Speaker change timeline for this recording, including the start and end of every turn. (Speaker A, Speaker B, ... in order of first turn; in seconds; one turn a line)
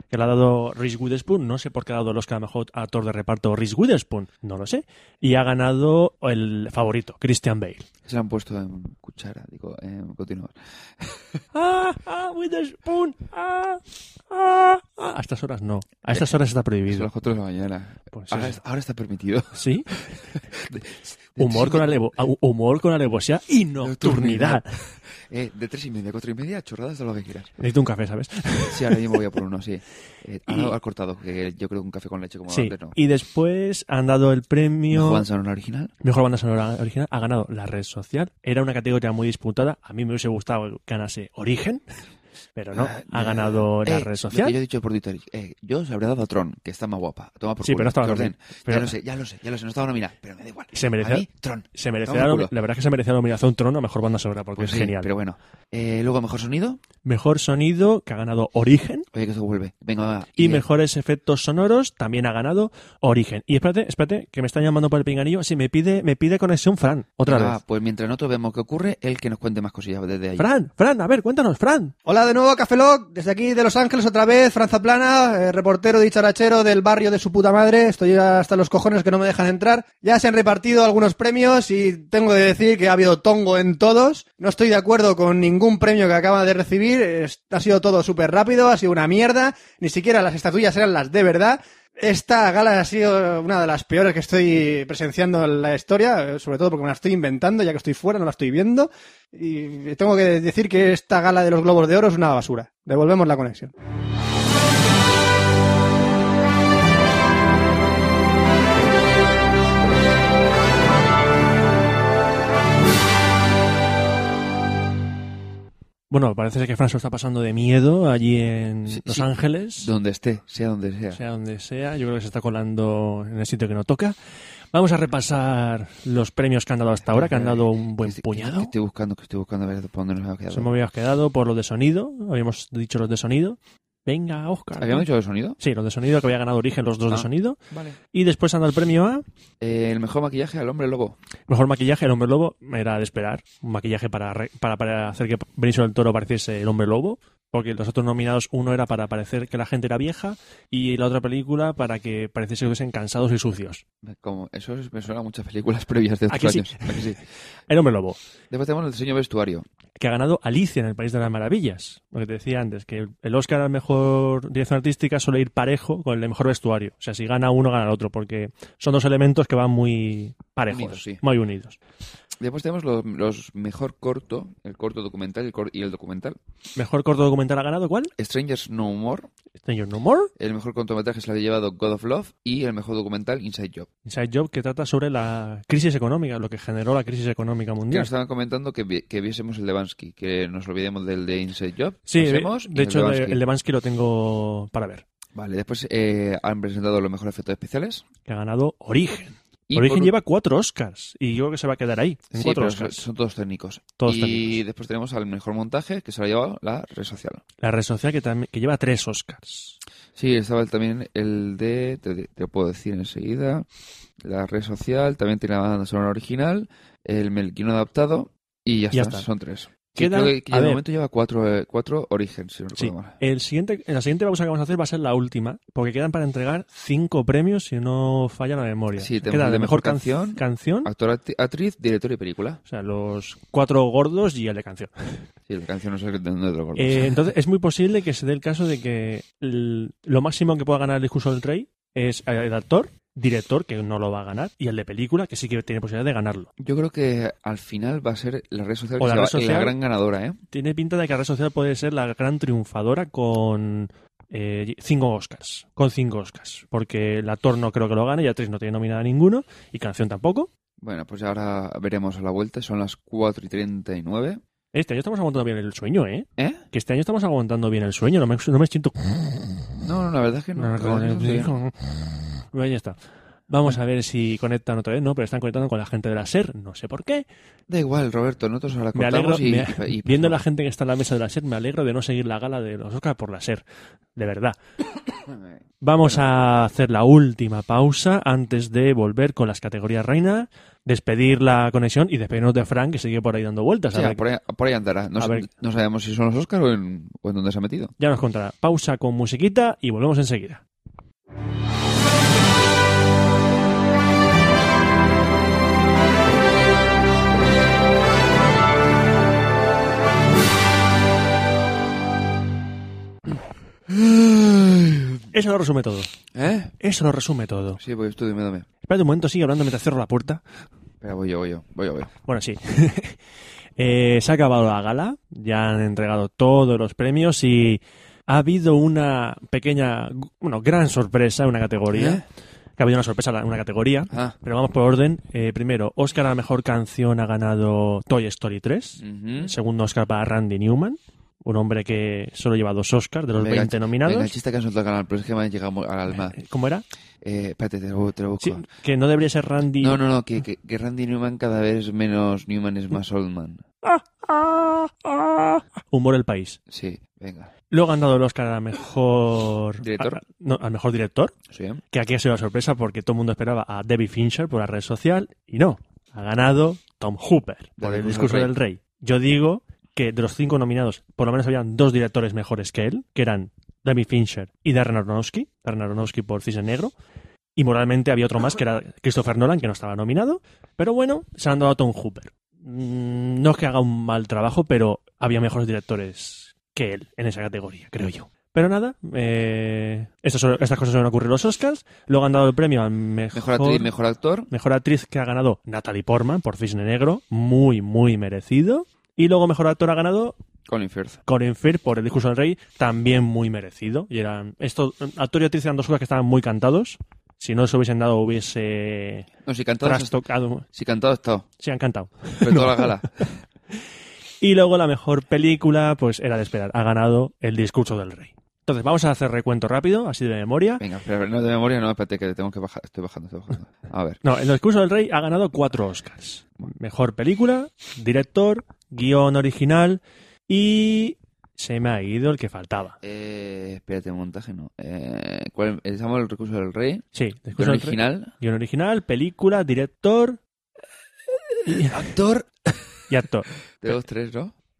Speaker A: 0.1-7.9
Speaker B: 8.0-11.4
Speaker A: 11.5-17.1
Speaker B: 16.9-21.9
Speaker A: 18.1-18.6
Speaker A: 19.5-20.0
Speaker A: 21.4-24.7
Speaker B: 23.8-27.5
Speaker A: 27.6-29.1
Speaker B: 28.7-33.0
Speaker A: 30.5-30.7
Speaker A: 32.5-35.2
Speaker B: 34.9-35.9
Speaker A: 36.0-41.8
Speaker A: 42.5-44.5
Speaker B: 42.7-52.5
Speaker A: 47.6-48.9
Speaker A: 50.7-55.1
Speaker B: 54.5-56.8
Speaker A: 57.0-59.1
Speaker B: 59.1-60.6
Speaker A: 60.4-67.6
Speaker B: 67.2-70.5
Speaker A: 70.4-71.9
Speaker C: 72.0-103.7
Speaker A: 116.1-119.9
Speaker B: 118.9-119.3
Speaker B: 119.8-121.2
Speaker A: 121.1-124.2
Speaker A: 124.7-128.7
Speaker B: 127.0-130.7
Speaker A: 130.5-135.1
Speaker B: 134.8-135.6
Speaker A: 135.6-137.6
Speaker B: 137.1-138.0
Speaker A: 138.1-139.2
Speaker B: 139.6-141.2
Speaker A: 141.5-153.8
Speaker B: 154.0-157.2
Speaker A: 156.3-157.2
Speaker A: 157.7-158.2
Speaker B: 158.5-159.7
Speaker A: 160.0-171.8
Speaker B: 170.7-171.2
Speaker B: 172.4-176.4
Speaker A: 176.8-178.1
Speaker B: 178.2-179.3
Speaker A: 179.6-180.3
Speaker B: 180.3-183.9
Speaker A: 184.1-188.1
Speaker B: 187.9-193.4
Speaker A: 192.1-195.0
Speaker B: 195.3-198.0
Speaker A: 198.2-203.0
Speaker B: 199.7-200.1
Speaker B: 202.3-207.4
Speaker A: 204.0-204.6
Speaker A: 207.6-209.8
Speaker B: 210.2-213.7
Speaker B: 214.2-223.2
Speaker A: 218.9-219.3
Speaker A: 219.9-220.8
Speaker A: 222.8-230.9
Speaker B: 229.0-232.6
Speaker A: 232.7-235.2
Speaker B: 235.5-237.2
Speaker A: 236.8-246.5
Speaker B: 246.6-250.4
Speaker A: 249.0-249.8
Speaker A: 250.5-260.5
Speaker B: 260.8-264.4
Speaker A: 264.7-269.3
Speaker B: 269.8-271.5
Speaker A: 270.5-271.8
Speaker A: 272.5-273.0
Speaker A: 273.5-277.2
Speaker B: 277.7-280.4
Speaker A: 278.9-283.6
Speaker A: 284.2-284.6
Speaker B: 285.2-286.2
Speaker A: 285.8-294.2
Speaker B: 293.9-297.9
Speaker A: 295.2-295.5
Speaker A: 298.0-300.6
Speaker B: 313.2-315.2
Speaker A: 315.3-316.1
Speaker B: 316.3-316.7
Speaker A: 316.8-317.8
Speaker B: 317.8-318.7
Speaker A: 318.9-320.4
Speaker B: 321.0-322.1
Speaker A: 322.2-323.2
Speaker A: 323.8-332.2
Speaker B: 331.9-332.2
Speaker A: 332.8-344.3
Speaker B: 339.0-339.5
Speaker B: 343.4-346.4
Speaker A: 346.1-346.8
Speaker B: 347.2-348.7
Speaker A: 348.4-350.0
Speaker B: 349.8-353.6
Speaker A: 353.8-356.6
Speaker B: 356.7-357.5
Speaker A: 357.7-361.3
Speaker B: 359.8-360.2
Speaker B: 361.5-361.8
Speaker A: 361.9-376.9
Speaker B: 367.8-368.5
Speaker A: 377.6-393.9
Speaker B: 393.3-394.5
Speaker A: 394.5-400.3
Speaker B: 400.7-401.2
Speaker A: 401.2-409.3
Speaker B: 409.4-410.2
Speaker A: 409.8-410.7
Speaker B: 410.7-411.5
Speaker A: 411.6-413.0
Speaker B: 412.4-413.4
Speaker A: 414.4-420.8
Speaker B: 420.8-424.2
Speaker A: 424.2-433.0
Speaker B: 433.0-438.3
Speaker A: 437.1-440.4
Speaker B: 441.5-442.9
Speaker A: 441.7-442.0
Speaker A: 443.1-443.9
Speaker B: 443.8-444.5